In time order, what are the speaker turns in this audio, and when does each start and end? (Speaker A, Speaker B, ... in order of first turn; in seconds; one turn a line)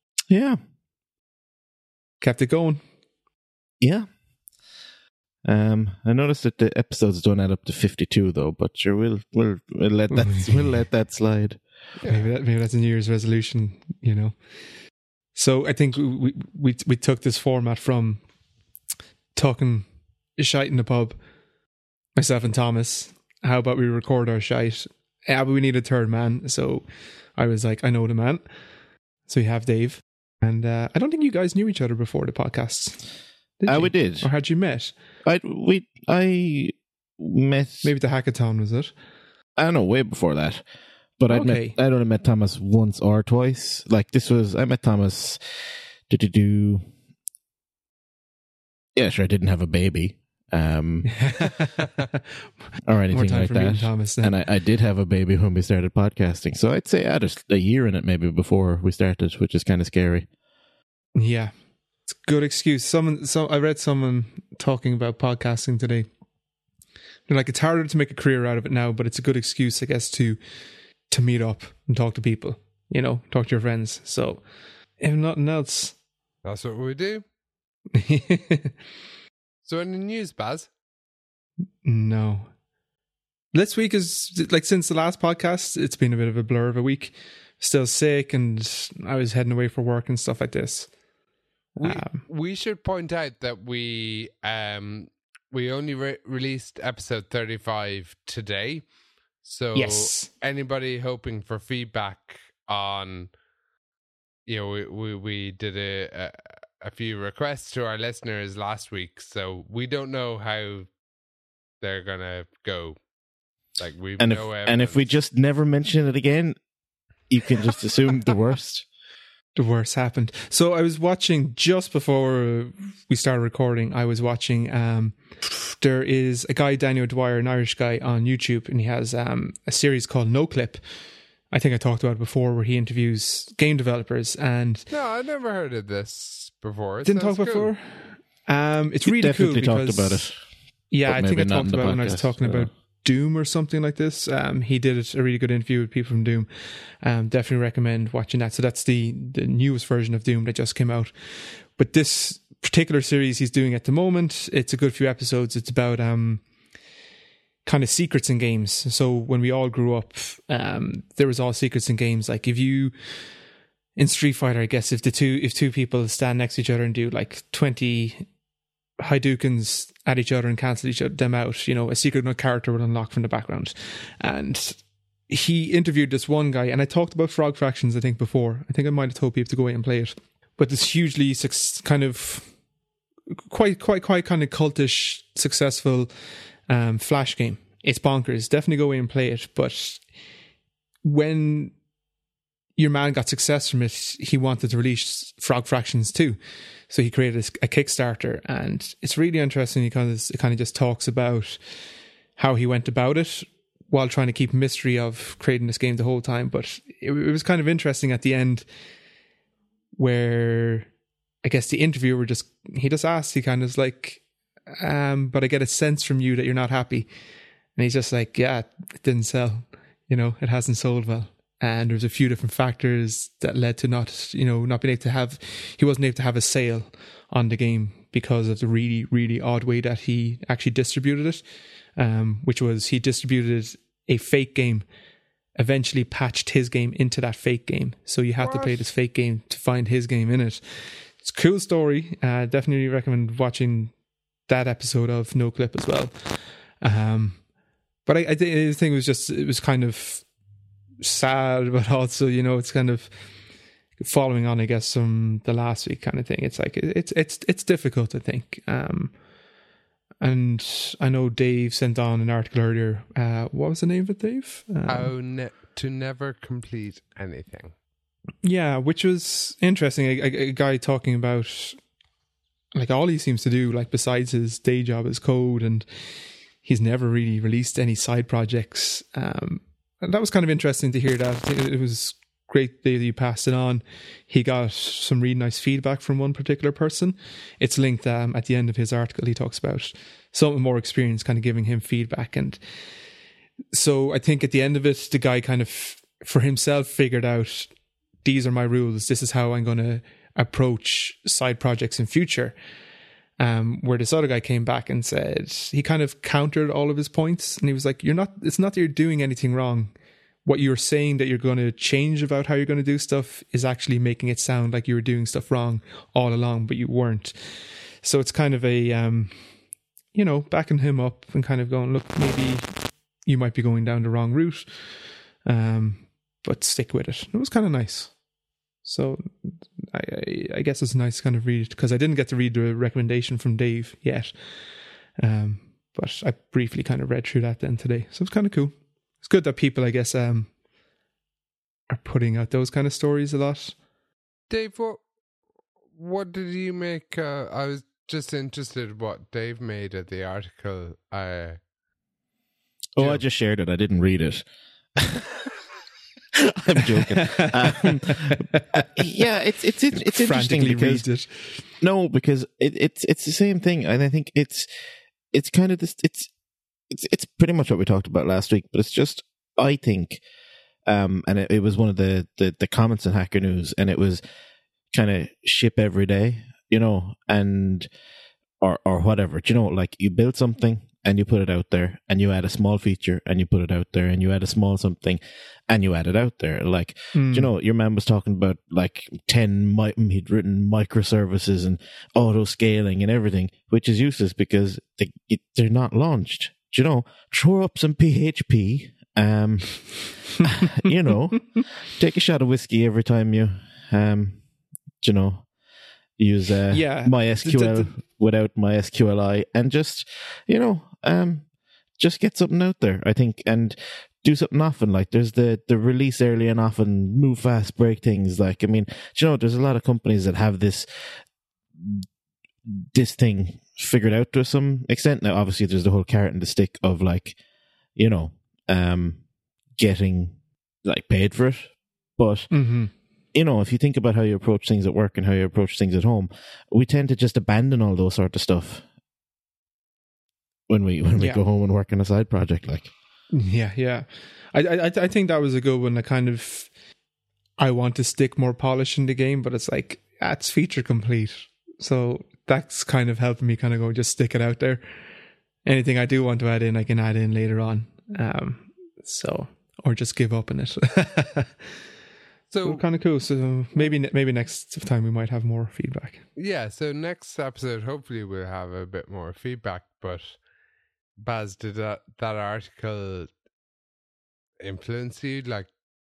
Speaker A: 0.3-0.6
Speaker B: 2.2-2.8
Speaker A: 3.8-4.1
Speaker A: 5.4-11.6
Speaker B: 10.1-10.8
Speaker C: 12.0-12.2
Speaker B: 12.0-14.4
Speaker B: 15.3-18.2
Speaker B: 19.3-21.2
Speaker B: 22.1-28.4
Speaker B: 29.3-33.0
Speaker B: 33.6-34.9
Speaker A: 33.7-34.3
Speaker A: 35.2-37.9
Speaker B: 37.8-38.9
Speaker A: 39.6-40.6
Speaker A: 41.2-46.8
Speaker B: 41.3-41.8
Speaker A: 48.9-51.2
Speaker B: 51.0-52.1
Speaker A: 52.9-60.3
Speaker B: 53.1-54.4
Speaker B: 61.1-61.5
Speaker B: 62.2-66.1
Speaker B: 67.3-70.4
Speaker B: 71.1-74.4
Speaker B: 75.0-76.0
Speaker C: 76.4-77.2
Speaker B: 77.9-78.7
Speaker C: 79.6-80.7
Speaker B: 81.8-82.5
Speaker B: 83.5-90.9
Speaker B: 91.8-92.2
Speaker C: 91.8-98.9
Speaker C: 99.4-103.3
Speaker B: 99.7-100.3
Speaker C: 104.5-110.9
Speaker C: 111.8-113.0
Speaker C: 113.8-115.1
Speaker A: 114.2-116.5
Speaker A: 117.3-118.9
Speaker B: 119.5-130.8
Speaker B: 131.5-134.9
Speaker C: 134.9-137.7
Speaker B: 137.0-140.3
Speaker A: 139.0-140.4
Speaker B: 140.9-146.5
Speaker A: 141.0-142.7
Speaker B: 147.0-156.5
Speaker B: 157.6-163.3
Speaker B: 163.9-168.3
Speaker B: 169.0-182.6
Speaker B: 183.5-186.1
Speaker B: 186.7-190.1
Speaker B: 191.0-191.8
Speaker B: 192.8-196.4
Speaker B: 196.9-201.6
Speaker B: 202.3-208.7
Speaker B: 209.9-210.9
Speaker B: 211.4-217.1
Speaker B: 217.8-231.4
Speaker B: 231.9-234.9
Speaker B: 235.6-243.9
Speaker C: 238.4-238.9
Speaker B: 244.4-247.4
Speaker B: 248.1-250.3
Speaker B: 251.0-253.1
Speaker B: 254.0-259.2
Speaker B: 260.2-265.1
Speaker C: 264.9-267.7
Speaker B: 268.4-271.8
Speaker B: 272.7-275.9
Speaker B: 276.6-292.6
Speaker B: 293.7-302.6
Speaker B: 303.4-309.9
Speaker B: 310.4-319.5
Speaker B: 320.1-328.2
Speaker B: 328.8-334.4
Speaker B: 335.2-340.5
Speaker B: 341.9-343.8
Speaker C: 344.5-345.0
Speaker C: 345.9-351.6
Speaker A: 352.9-354.4
Speaker A: 355.0-355.3
Speaker A: 356.3-361.1
Speaker B: 357.1-358.9
Speaker B: 360.0-361.6
Speaker A: 361.8-364.7
Speaker A: 365.3-366.3
Speaker A: 366.9-370.2
Speaker A: 370.9-374.2
Speaker A: 374.9-377.9
Speaker A: 378.6-404.4
Speaker B: 387.1-387.5
Speaker A: 405.0-405.5
Speaker A: 406.2-411.4
Speaker B: 406.7-407.9
Speaker A: 412.0-420.9
Speaker A: 421.8-422.0
Speaker A: 422.6-427.4
Speaker A: 427.9-429.2
Speaker A: 429.8-432.5
Speaker B: 432.5-432.9
Speaker A: 433.3-438.8
Speaker A: 440.7-442.9
Speaker B: 443.3-446.7
Speaker B: 447.6-454.8
Speaker B: 455.6-461.5
Speaker C: 462.5-462.9
Speaker B: 462.6-466.2
Speaker C: 466.4-470.4
Speaker C: 471.2-473.3
Speaker C: 474.6-475.7